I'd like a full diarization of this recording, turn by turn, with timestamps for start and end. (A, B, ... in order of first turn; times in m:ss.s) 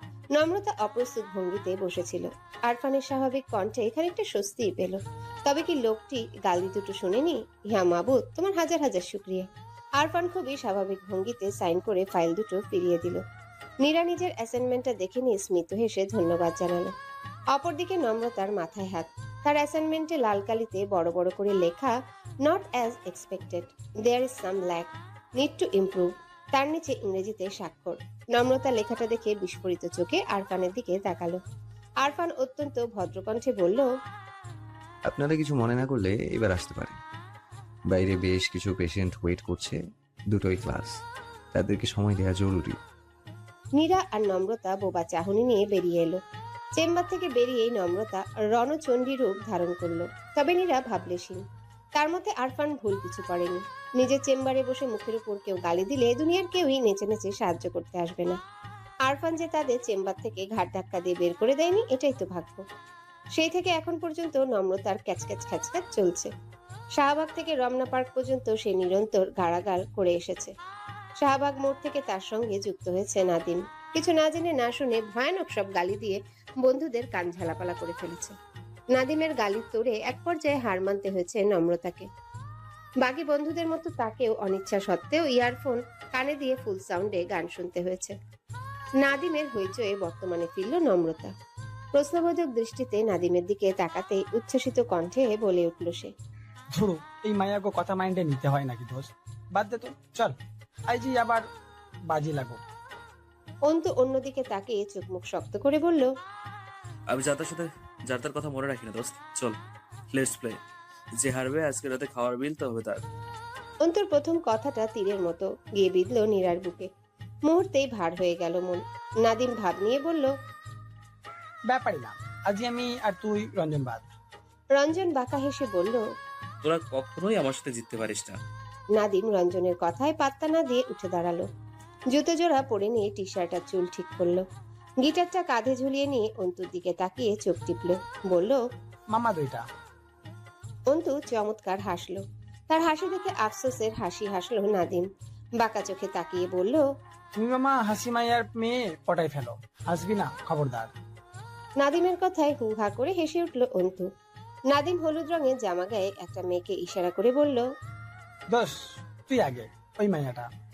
0:00.3-0:13.2 A
0:13.8-0:16.9 A
0:17.5-0:31.4 A
0:32.0-0:33.8 A
0:35.0-0:37.0 B
0:37.9-0:41.0 B
0:41.5-0:42.8 B
0:43.8-0:46.2 A
0:46.8-0:51.4 A
0:52.0-0:58.4 A
0:59.0-1:02.6 A
1:03.3-1:06.3 A
1:07.0-1:10.5 A
1:11.2-1:18.3 A
1:18.9-1:22.1 A
1:23.0-1:28.1 A
1:29.0-1:31.3 A
1:31.9-1:36.1 A
1:36.7-1:40.4 C
1:40.9-1:41.4 C
1:42.1-1:42.6 C
1:43.7-1:46.1 A
1:47.1-1:49.6 D
1:50.1-1:50.6 D
1:51.2-1:53.0 D
1:53.8-1:56.9 A
1:57.5-2:00.3 A
2:01.7-2:04.0 C
2:04.7-2:06.0 A
2:06.6-2:08.4 D
2:09.0-2:11.5 A
2:12.1-2:14.4 A
2:15.0-2:18.6 A
2:19.1-2:19.6 C
2:20.9-2:25.1 A
2:25.6-2:26.8 A
2:27.3-2:30.9 C
2:31.8-2:34.1 A
2:34.7-2:37.6 A
2:38.5-2:40.5 C